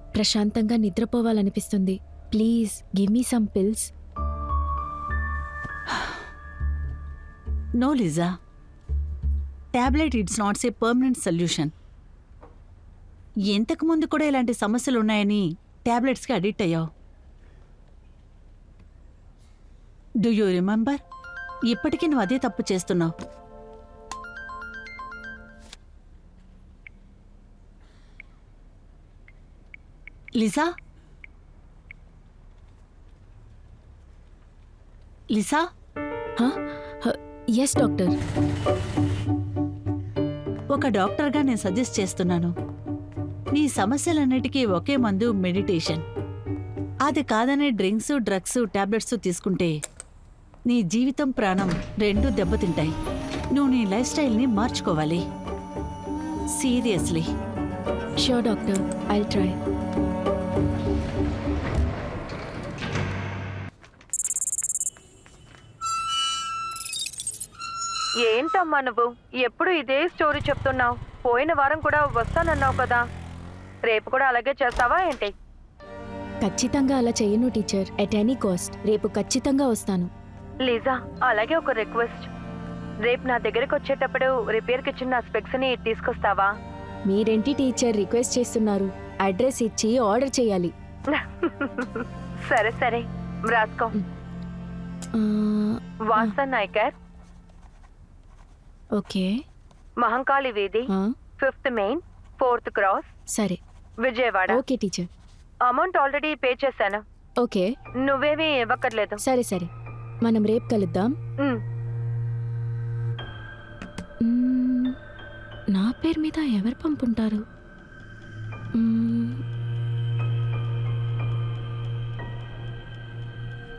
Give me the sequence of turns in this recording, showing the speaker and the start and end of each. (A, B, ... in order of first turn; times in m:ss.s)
0:00.2-0:03.9 A
0:07.8-0:08.3 B
0:09.7-0:11.7 B
0:13.5-0:16.9 B
0:20.2-0:21.0 B
0:21.7-0:23.1 B
0:30.4-0:30.7 B
0:35.3-0:35.6 B
0:36.4-0:38.1 A
0:40.7-0:42.5 B
0:43.5-0:46.0 B
0:47.1-0:49.7 B
0:50.7-0:52.9 B
0:53.5-0:55.2 B
0:56.5-0:57.3 B
0:58.2-0:59.6 A
1:08.2-1:13.0 C
1:13.8-1:15.3 C
1:16.4-1:20.1 A
1:20.6-1:22.3 C
1:23.0-1:26.5 C
1:27.1-1:30.7 A
1:31.1-1:33.9 C
1:35.1-1:36.3 A
1:36.0-1:36.9 C
1:39.0-1:39.4 A
1:40.0-1:40.8 C
1:41.4-1:43.1 C
1:43.3-1:43.6 A
1:44.0-1:44.6 C
1:44.5-1:45.1 A
1:45.6-1:47.0 C
1:47.4-1:47.7 A
1:48.0-1:49.2 C
1:49.2-1:49.7 A
1:50.2-1:51.2 A
1:54.2-1:55.0 A
1:55.7-1:57.4 A
1:58.8-1:59.4 A